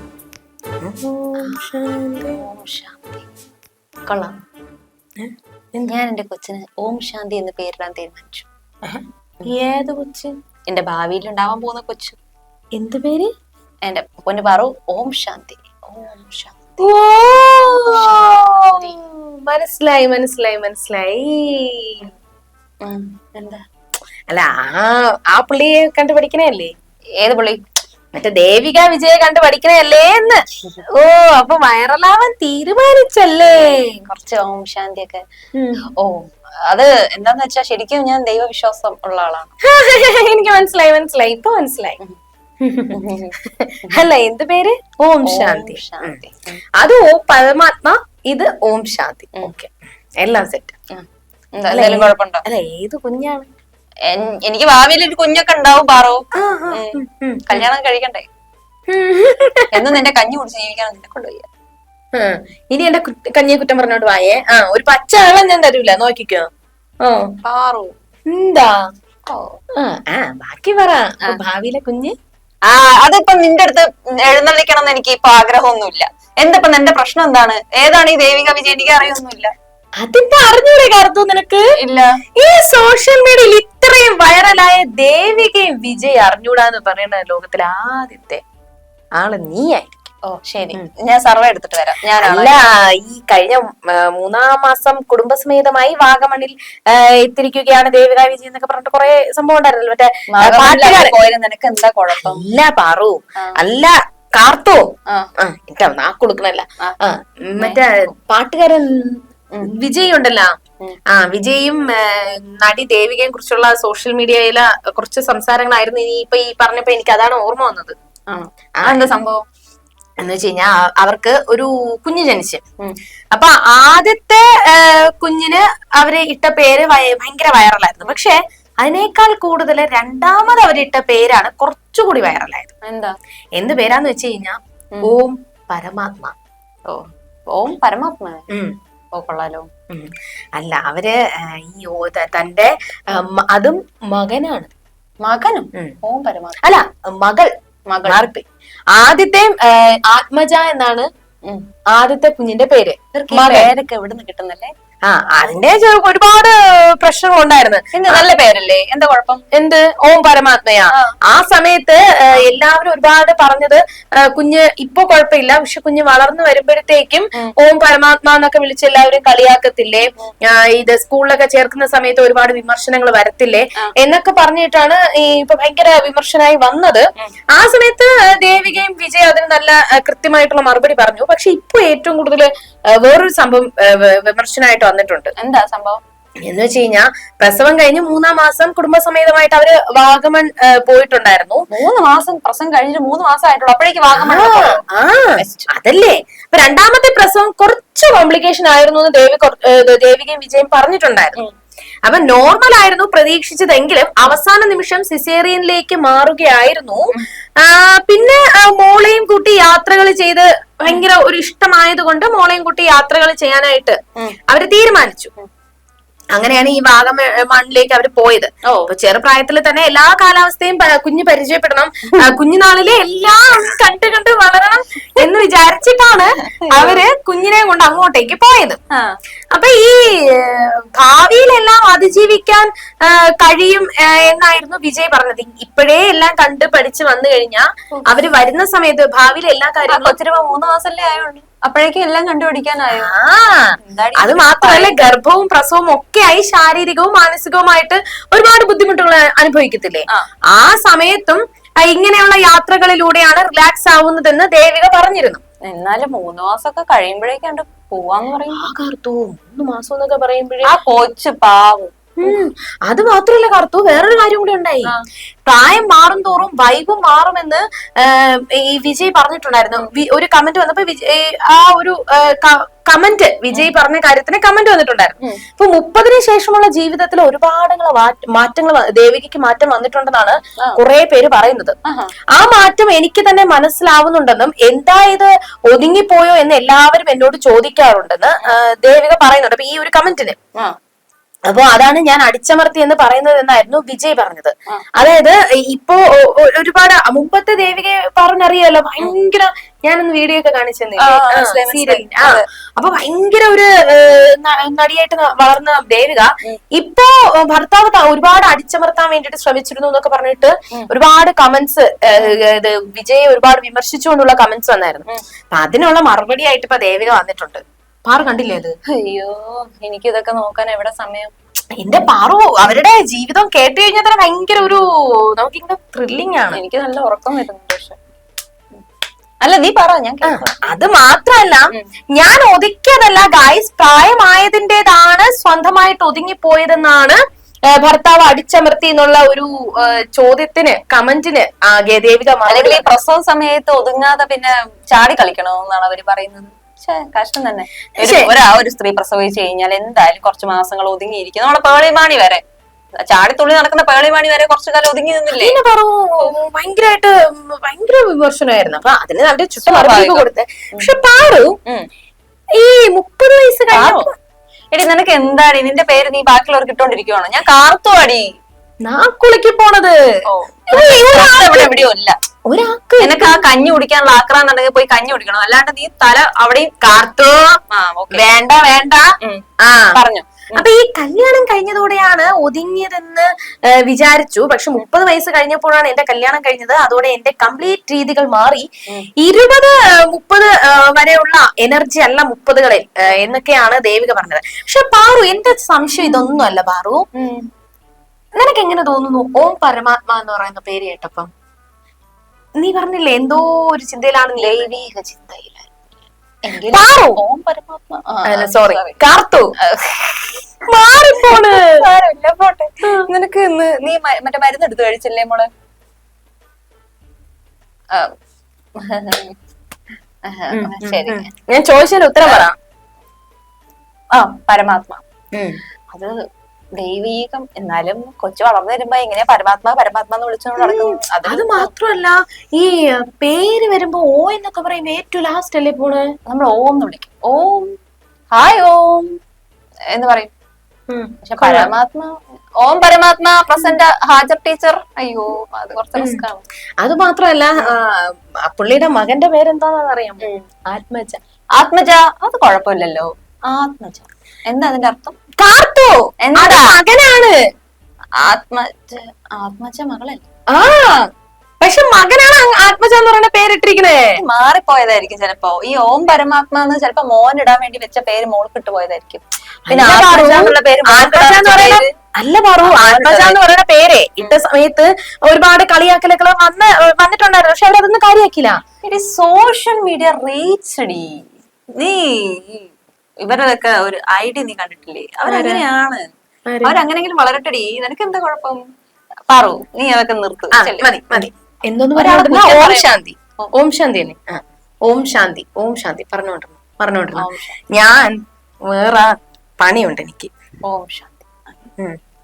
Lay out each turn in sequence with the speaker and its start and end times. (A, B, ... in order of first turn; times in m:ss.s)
0:00.8-0:02.4 A
0:02.4-0:03.2 B
0:04.1-0:04.3 B
0:05.2-0:05.9 A
0:05.9-0:08.4 B
0:08.8-0:10.3 A
0:10.7-0:12.2 B
0:12.7-0:13.3 A
0:13.8-0:16.9 B
0:16.8-0:22.1 A
0:17.9-0:18.3 B
0:22.8-0:23.6 B
0:24.3-0:26.7 A
0:27.2-0:27.6 B
0:28.1-0:30.4 A
0:30.9-0:34.0 A
0:33.6-0:35.2 B
0:35.5-0:35.8 A
0:36.0-0:39.5 B
0:39.6-0:42.0 A
0:42.6-0:46.2 A
0:42.9-0:43.3 B
0:45.2-0:46.6 B
0:46.8-0:50.8 A
0:51.6-0:52.4 B
0:51.7-0:53.5 A
0:54.1-0:58.2 B
0:56.4-0:57.7 A
0:58.9-0:59.9 A
0:59.7-1:01.4 B
1:02.1-1:06.5 A
1:07.0-1:07.3 A
1:07.4-1:07.9 B
1:08.3-1:08.8 A
1:09.3-1:09.6 B
1:09.8-1:12.1 A
1:12.7-1:19.5 B
1:20.0-1:21.6 A
1:21.8-1:22.2 B
1:22.4-1:28.4 A
1:29.2-1:29.9 A
1:30.3-1:32.6 B
1:32.2-1:41.2 A
1:40.3-1:42.4 B
1:42.1-1:44.9 A
1:45.4-1:50.5 A
1:47.6-1:48.1 B
1:51.1-1:58.0 A
1:58.3-1:59.4 B
1:58.8-1:59.1 A
2:00.2-2:02.6 A
2:03.3-2:12.7 A
2:12.8-2:13.1 B
2:13.6-2:16.3 A
2:16.9-2:18.5 B
2:19.1-2:19.7 B
2:19.9-2:24.7 A
2:25.2-2:26.6 B
2:26.6-2:27.5 A
2:27.9-2:28.2 B
2:28.0-2:31.1 A
2:31.9-2:33.7 A
2:33.1-2:34.7 B
2:35.1-2:38.3 A
2:37.9-2:39.4 B
2:39.5-3:05.3 A
3:05.4-3:06.0 B
3:06.4-3:11.6 A
3:11.7-3:14.8 B
3:14.1-3:21.4 A
3:15.4-3:15.7 B
3:22.1-3:35.3 A
3:36.3-3:48.8 A
3:46.8-3:47.0 B
3:48.9-3:49.2 B
3:49.5-4:00.2 A
3:59.9-4:03.1 B
4:02.9-4:15.4 A
4:03.8-4:05.0 B
4:15.7-4:18.6 B
4:18.5-4:20.7 A
4:20.6-4:22.4 B
4:22.2-4:24.9 A
4:25.5-4:41.7 A
4:41.8-4:42.1 B
4:42.3-4:50.4 A
4:51.5-5:18.7 A
5:01.0-5:02.4 B
5:19.0-5:21.3 B
5:21.8-5:24.8 A
5:25.4-5:26.6 A
5:26.5-5:28.0 B
5:29.4-5:30.6 B
5:30.2-5:37.2 A
5:37.7-5:43.0 A
5:42.5-5:52.4 B
5:48.0-5:48.3 A
5:53.0-5:55.6 B
5:55.3-6:01.6 A
5:59.6-6:00.9 B
6:02.6-6:04.1 A
6:03.7-6:04.1 B
6:04.7-6:08.3 B
6:08.8-6:10.0 A
6:10.3-6:12.2 B
6:10.7-6:11.8 A
6:12.4-6:13.4 A
6:13.0-6:17.0 B
6:16.8-6:17.6 A
6:17.7-6:18.2 B
6:18.1-6:20.0 A
6:19.2-6:20.6 B
6:20.5-6:28.6 A
6:29.2-6:37.0 A
6:37.2-6:37.5 B
6:38.3-6:41.3 A
6:42.6-6:44.7 A
6:44.4-6:45.7 B
6:46.4-6:49.0 B
6:46.7-6:47.2 A
6:48.3-6:49.5 A
6:49.6-6:50.4 B
6:50.7-6:51.6 A
6:51.2-6:55.5 B
6:58.8-6:59.3 B
7:00.2-7:01.3 B
7:00.5-7:02.5 A
7:04.1-7:05.0 B
7:05.3-7:05.6 A
7:05.9-7:06.2 B
7:06.8-7:11.7 B
7:10.6-7:16.1 A
7:16.3-7:17.7 B
7:18.3-7:19.1 B
7:19.9-7:20.3 B
7:20.9-7:21.7 A
7:21.2-7:26.4 B
7:26.0-7:26.2 A
7:26.8-7:31.2 A
7:31.6-7:35.2 B
7:35.4-7:37.3 A
7:36.2-7:36.8 B
7:38.2-7:40.2 B
7:40.5-7:41.0 A
7:41.6-7:44.2 A
7:44.2-7:51.9 B
7:49.7-7:58.6 A
7:52.6-7:53.4 B
7:58.8-8:01.2 B
8:01.8-8:02.7 B
8:03.2-8:06.1 B
8:05.3-8:05.6 A
8:06.5-8:06.8 A
8:06.6-8:08.6 B
8:09.3-8:11.3 B
8:10.5-8:18.2 A
8:12.0-8:12.9 B
8:17.1-8:17.6 B
8:18.7-8:20.3 A
8:20.7-8:21.6 B